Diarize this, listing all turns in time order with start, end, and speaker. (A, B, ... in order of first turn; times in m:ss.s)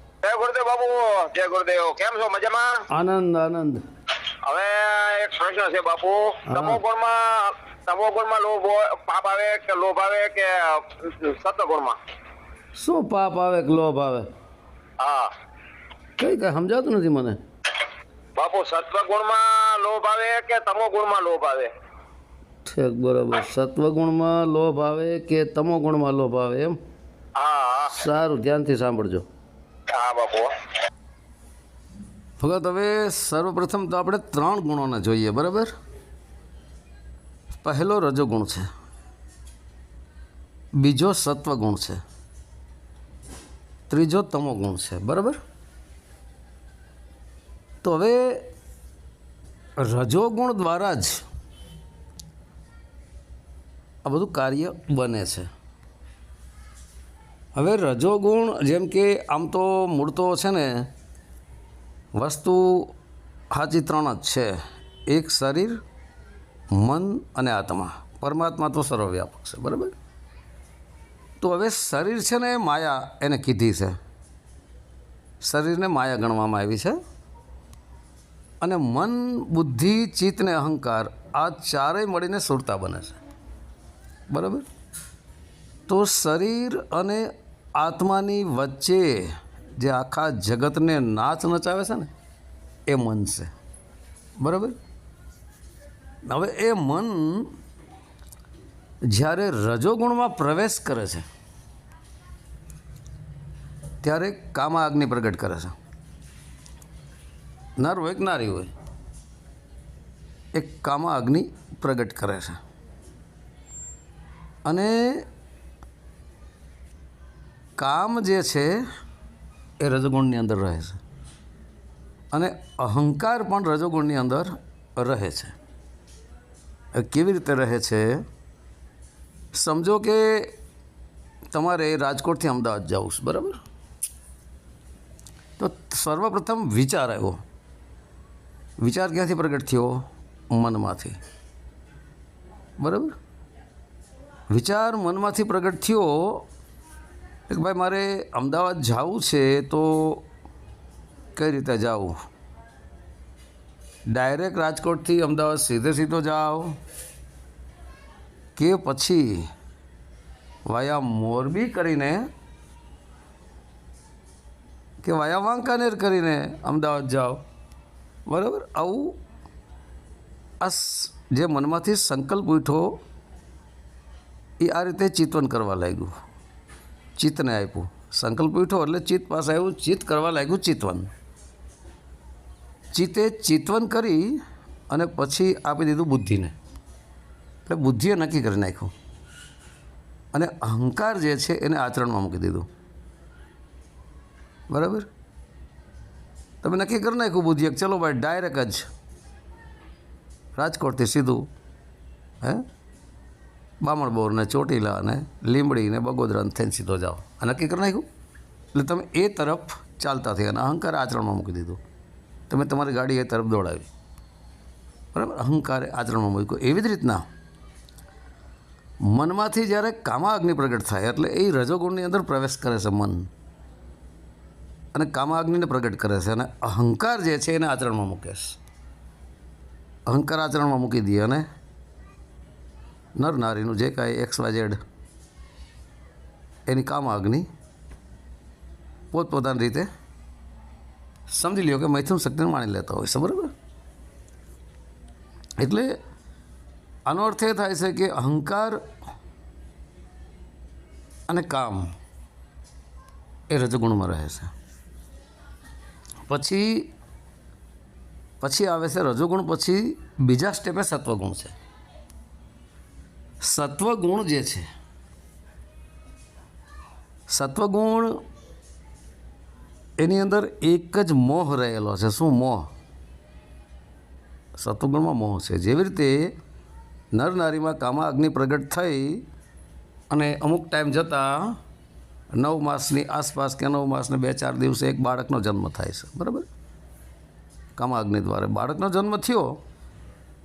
0:00.2-0:02.8 A
0:02.9-0:03.8 B
0:04.4-0:12.0 A
0:06.5-0:06.8 B
0:12.7-0:14.3 B
0:15.0-0:15.3 A
0:16.2-0:17.4 B
0:18.4-0:21.7 A
0:22.6-0:26.8 B
0:27.4-0:28.0 A
0:27.9-0:29.2 B
0:29.9-0:30.5 A
0:32.4-0:35.7 B
0:37.6-0:38.7 B
0:40.7-0:42.0 B
0:43.9-0:45.4 B
0:47.8-0:48.4 B
0:49.8-0:51.2 B
0:54.0-0:55.5 B
0:57.5-1:00.9 B
1:02.1-1:02.9 B
1:03.5-1:05.8 B
1:06.7-1:09.9 B
1:11.4-1:14.0 B
1:15.4-1:17.0 B
1:18.6-1:23.2 B
1:24.3-1:24.6 B
1:25.9-1:32.1 B
1:32.9-1:33.5 B
1:34.4-1:34.8 B
1:36.3-1:37.5 B
1:39.1-1:41.2 B
1:44.0-1:45.7 B
1:47.8-1:48.7 B
1:50.5-1:52.6 B
1:54.6-1:55.2 B
1:57.8-1:58.8 B
1:59.8-2:01.0 B
2:02.3-2:05.6 B
2:06.9-2:08.2 B
2:09.5-2:10.5 B
2:11.5-2:13.6 B
2:15.6-2:17.4 B
2:18.8-2:21.2 B
2:22.8-2:23.1 B
2:24.5-2:26.4 B
2:27.5-2:30.2 B
2:31.4-2:32.1 B
2:34.1-2:36.8 B
2:38.6-2:39.5 B
2:40.7-2:42.3 B
2:45.0-2:47.4 B
2:48.3-2:49.2 B
2:50.6-2:53.0 B
2:54.6-2:56.1 B
2:57.2-3:01.1 B
3:02.9-3:04.4 B
3:04.9-3:06.5 B
3:07.6-3:08.9 B
3:10.3-3:12.7 B
3:14.7-3:15.1 B
3:16.6-3:18.9 B
3:20.5-3:21.5 B
3:23.8-3:28.0 B
3:28.7-3:31.8 B
3:32.5-3:33.9 B
3:35.1-3:37.2 B
3:39.1-3:43.3 B
3:44.9-3:48.6 B
3:50.1-3:51.4 B
3:53.2-3:54.8 B
3:56.7-3:57.5 B
3:59.1-3:59.9 B
4:01.3-4:03.5 B
4:05.6-4:05.9 B
4:07.0-4:08.8 B
4:11.3-4:11.9 B
4:13.5-4:14.5 B
4:16.2-4:16.9 B
4:18.4-4:21.6 B
4:23.4-4:24.7 B
4:27.3-4:28.2 B
4:30.0-4:32.7 B
4:34.6-4:36.3 B
4:37.1-4:39.2 B
4:40.1-4:41.6 B
4:42.3-4:46.5 B
4:47.8-4:49.6 B